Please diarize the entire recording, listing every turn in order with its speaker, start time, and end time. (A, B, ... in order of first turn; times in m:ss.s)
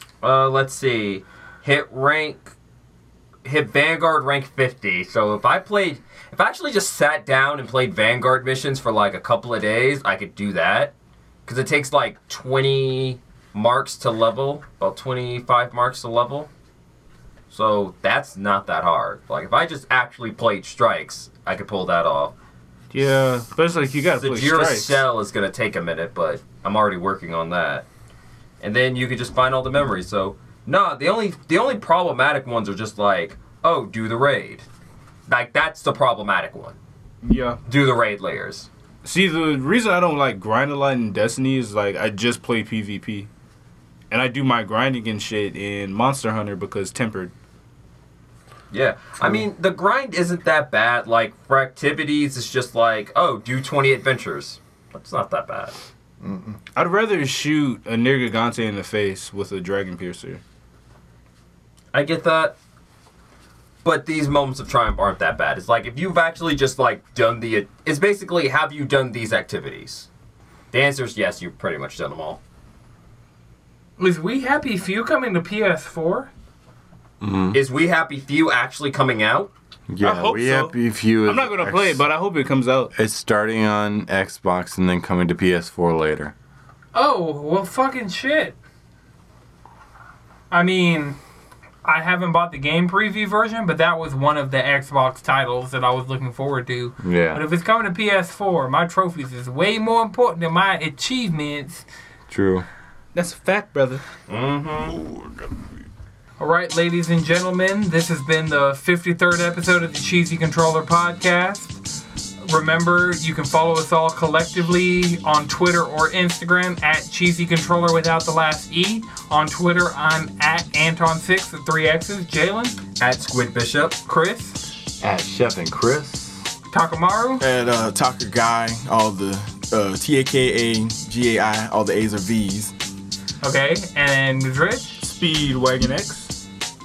0:00.2-0:02.5 A
0:03.4-0:10.9 A
0:11.5-0:16.5 A
0:17.5-0:22.3 A
0:22.9-0:25.0 B
0:24.2-0:27.9 A
0:28.6-0:34.6 A
0:35.3-0:36.8 A
0:37.2-0:37.6 B
0:37.7-0:38.7 A
0:39.0-0:43.3 B
0:44.1-0:47.3 B
0:48.7-0:55.8 A
0:56.2-0:56.6 C
0:56.8-1:00.4 B
1:01.9-1:02.6 A
1:03.8-1:10.1 A
1:10.7-1:12.4 A
1:14.0-1:16.3 D
1:17.2-1:17.6 E
1:17.5-1:19.5 A
1:19.9-1:22.0 E
1:20.0-1:22.9 B
1:22.9-1:26.3 E
1:26.9-1:28.6 D
1:30.5-1:31.2 D
1:31.8-1:41.9 D
1:37.0-1:37.4 E
1:42.3-1:42.7 E
1:43.2-1:44.0 B
1:44.3-1:45.0 A
1:46.4-1:51.8 D
1:52.4-2:02.8 D
2:03.0-2:04.0 A
2:04.1-2:04.6 D
2:05.0-2:06.5 E
2:06.7-2:07.4 D
2:07.4-2:12.7 C
2:13.4-2:15.0 D
2:15.0-2:16.3 B